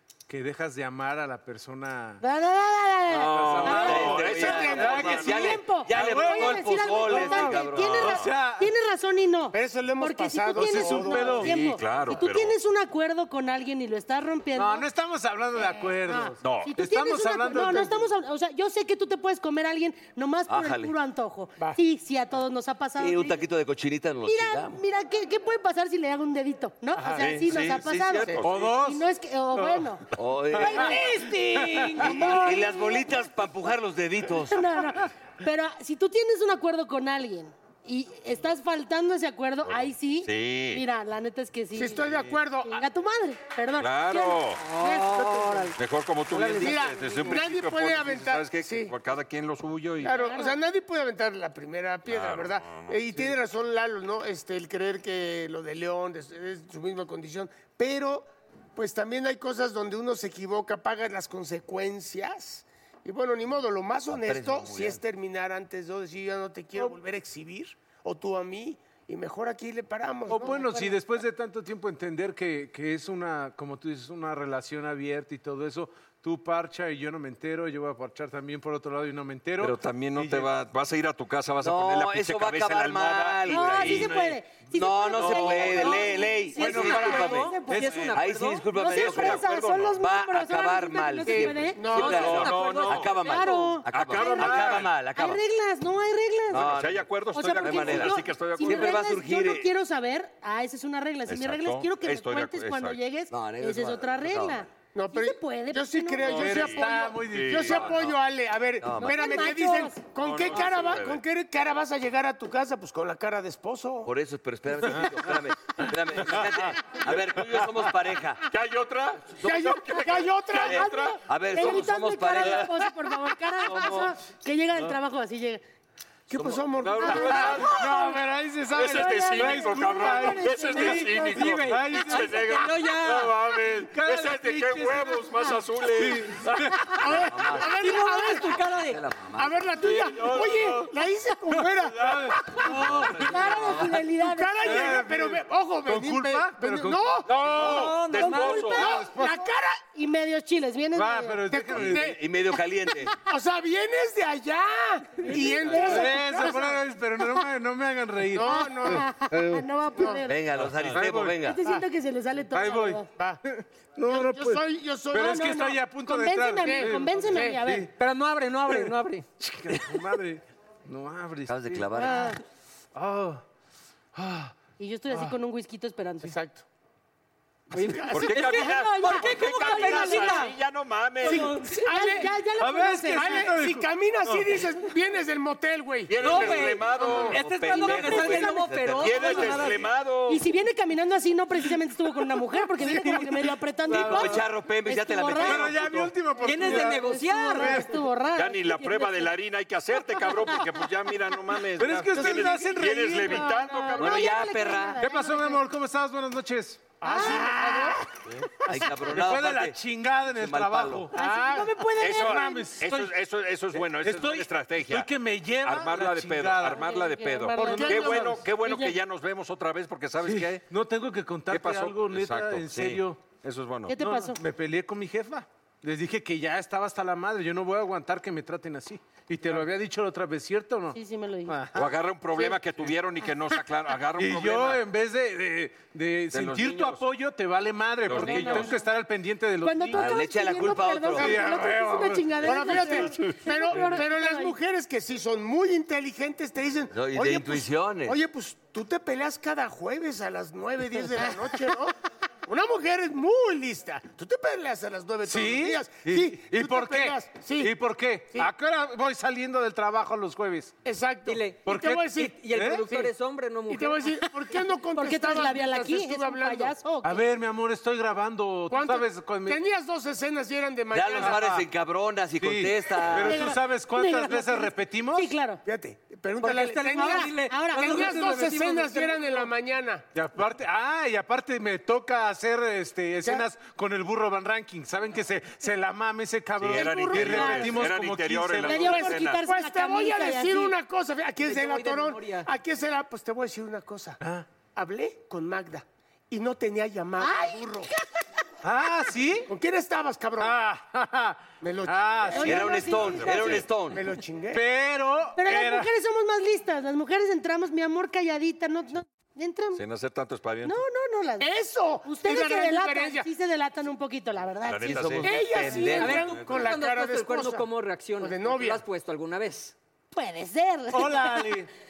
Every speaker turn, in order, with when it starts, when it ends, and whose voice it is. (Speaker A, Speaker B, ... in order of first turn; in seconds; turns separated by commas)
Speaker A: 0.3-2.2, Speaker B: 2.2-14.9, Speaker C: 3.1-5.5, Speaker A: 3.2-8.7, Speaker D: 3.6-8.1, Speaker E: 4.3-5.5, Speaker C: 7.7-8.3, Speaker E: 9.5-11.5, Speaker A: 10.6-11.7, Speaker C: 11.4-12.6, Speaker A: 14.6-18.1, Speaker B: 15.6-23.4, Speaker C: 16.4-16.8, Speaker D: 20.5-20.9, Speaker D: 23.0-24.8, Speaker B: 24.2-30.1, Speaker C: 27.2-28.7, Speaker A: 28.4-32.3, Speaker D: 30.1-34.8, Speaker B: 30.6-33.1, Speaker B: 34.3-42.0, Speaker C: 39.6-40.8, Speaker E: 41.8-42.9, Speaker C: 42.0-42.4, Speaker B: 42.6-45.7, Speaker C: 43.8-44.6, Speaker F: 44.6-45.7, Speaker C: 45.8-50.1, Speaker F: 46.3-47.4, Speaker E: 46.6-48.9, Speaker E: 50.0-71.0, Speaker B: 50.0-50.6, Speaker C: 52.0-53.0, Speaker D: 64.1-65.0, Speaker A: 70.3-80.5, Speaker C: 79.6-84.4, Speaker D: 81.6-84.1, Speaker B: 83.5-88.0, Speaker D: 84.7-87.5, Speaker C: 85.1-85.9, Speaker E: 86.7-87.4, Speaker F: 86.7-88.7, Speaker A: 86.8-88.1, Speaker D: 88.1-95.4, Speaker B: 88.7-96.7, Speaker C: 88.8-89.9, Speaker E: 91.3-92.6, Speaker C: 91.9-93.1, Speaker F: 92.0-93.5, Speaker C: 93.9-94.9, Speaker D: 96.5-99.7, Speaker C: 96.5-99.0, Speaker B: 97.3-106.6, Speaker C: 101.3-103.0, Speaker D: 103.3-104.7, Speaker E: 104.9-114.1, Speaker C: 106.2-108.1, Speaker A: 106.3-108.0, Speaker D: 108.8-109.4, Speaker B: 109.0-110.0, Speaker C: 110.1-111.2, Speaker D: 114.0-118.5, Speaker C: 116.2-116.7, Speaker C: 117.3-117.6, Speaker C: 118.5-121.2, Speaker D: 119.3-119.9, Speaker E: 119.4-121.1, Speaker D: 120.6-122.8, Speaker B: 120.7-125.6, Speaker D: 123.6-124.1, Speaker E: 126.3-127.7, Speaker D: 126.3-126.6, Speaker C: 126.8-128.0, Speaker B: 127.0-128.2, Speaker A: 127.5-132.6, Speaker C: 128.7-137.3, Speaker B: 128.8-131.4, Speaker F: 131.2-133.4, Speaker A: 133.7-136.9, Speaker E: 137.0-138.6, Speaker D: 137.1-137.8, Speaker F: 137.7-139.0, Speaker D: 138.8-139.7, Speaker E: 139.4-142.9, Speaker C: 139.8-140.9, Speaker A: 141.9-143.3, Speaker D: 142.9-144.0, Speaker B: 143.2-144.7, Speaker E: 144.0-149.8, Speaker A: 144.6-147.9, Speaker C: 147.3-149.0, Speaker F: 147.5-148.9, Speaker B: 148.3-148.8, Speaker A: 148.8-149.5, Speaker B: 149.9-151.5, Speaker A: 150.9-152.2, Speaker E: 151.5-152.2, Speaker D: 151.8-153.1, Speaker E: 153.2-156.6, Speaker B: 155.2-156.8, Speaker A: 155.7-159.6, Speaker E: 158.3-159.2, Speaker B: 158.4-160.4, Speaker D: 160.3-161.6, Speaker A: 160.8-161.5, Speaker B: 161.4-163.1, Speaker A: 162.5-167.9, Speaker E: 163.1-163.4, Speaker E: 164.0-165.8, Speaker B: 165.2-167.9, Speaker E: 166.6-167.6, Speaker F: 168.0-169.2, Speaker A: 169.4-172.3, Speaker D: 171.5-172.4, Speaker B: 172.0-172.3, Speaker A: 172.9-173.4, Speaker A: 174.1-174.5, Speaker B: 174.8-176.4, Speaker E: 176.2-176.6, Speaker F: 177.7-180.5, Speaker E: 177.7-178.4, Speaker C: 178.1-181.5, Speaker B: 178.3-180.5, Speaker F: 181.2-181.8, Speaker E: 181.2-182.3, Speaker B: 181.2-183.4, Speaker A: 182.6-184.6, Speaker E: 183.2-187.3, Speaker C: 186.1-188.4, Speaker F: 186.2-189.8, Speaker D: 187.3-189.9, Speaker C: 189.0-190.4, Speaker B: 190.3-195.8, Speaker A: 192.6-194.4, Speaker D: 193.9-196.0, Speaker A: 195.4-198.0, Speaker F: 196.4-197.8, Speaker B: 196.4-199.3, Speaker C: 198.3-204.4, Speaker B: 200.0-200.7, Speaker A: 201.8-203.7, Speaker E: 202.2-202.5, Speaker B: 203.2-205.6, Speaker D: 204.0-205.0, Speaker A: 205.0-208.0, Speaker E: 207.0-208.1, Speaker B: 207.0-207.8, Speaker D: 208.6-211.1, Speaker A: 208.8-211.2, Speaker B: 211.1-212.7, Speaker E: 211.1-211.8, Speaker A: 212.0-216.9, Speaker C: 212.0-220.6, Speaker B: 216.6-219.0, Speaker E: 217.6-218.4, Speaker A: 217.6-218.5, Speaker A: 220.2-223.4, Speaker C: 221.5-224.0, Speaker B: 223.9-224.4, Speaker A: 224.0-231.9, Speaker B: 230.9-231.6, Speaker C: 231.8-234.8, Speaker A: 234.1-240.2, Speaker C: 236.3-237.0, Speaker C: 238.0-238.8, Speaker B: 238.1-238.8, Speaker B: 239.6-244.6, Speaker D: 239.9-241.4, Speaker A: 241.1-243.0, Speaker E: 242.4-257.8, Speaker C: 243.2-243.4, Speaker D: 246.9-248.2, Speaker A: 255.2-260.8, Speaker E: 260.9-263.1, Speaker F: 261.2-264.1, Speaker A: 261.6-262.9, Speaker E: 263.7-266.8, Speaker B: 264.9-267.2, Speaker A: 267.0-269.6, Speaker E: 268.7-271.4, Speaker D: 270.9-273.5, Speaker A: 271.1-271.6, Speaker A: 272.4-275.3, Speaker B: 273.2-275.6, Speaker E: 275.6-280.0, Speaker F: 276.4-279.5, Speaker B: 277.0-278.6, Speaker A: 280.1-288.9, Speaker C: 286.6-289.4, Speaker B: 286.7-287.9, Speaker B: 288.6-290.7, Speaker E: 288.8-297.9, Speaker F: 291.4-292.5, Speaker A: 294.2-294.5, Speaker B: 297.2-298.2, Speaker A: 298.6-299.5, Speaker E: 299.5-300.6, Speaker A: 300.4-303.0, Speaker E: 301.6-302.8, Speaker B: 302.3-303.6, Speaker D: 302.4-304.0, Speaker C: 303.0-303.8, Speaker E: 303.9-304.6, Speaker A: 304.5-305.9, Speaker B: 305.4-309.8, Speaker C: 309.8-310.8, Speaker B: 310.6-311.5, Speaker E: 311.4-313.3, Speaker B: 312.0-315.3, Speaker C: 314.7-315.3, Speaker D: 314.9-316.4, Speaker E: 315.2-317.6, Speaker F: 315.9-319.7, Speaker C: 316.1-316.7, Speaker E: 318.2-318.8, Speaker B: 320.1-321.6, Speaker A: 320.9-321.7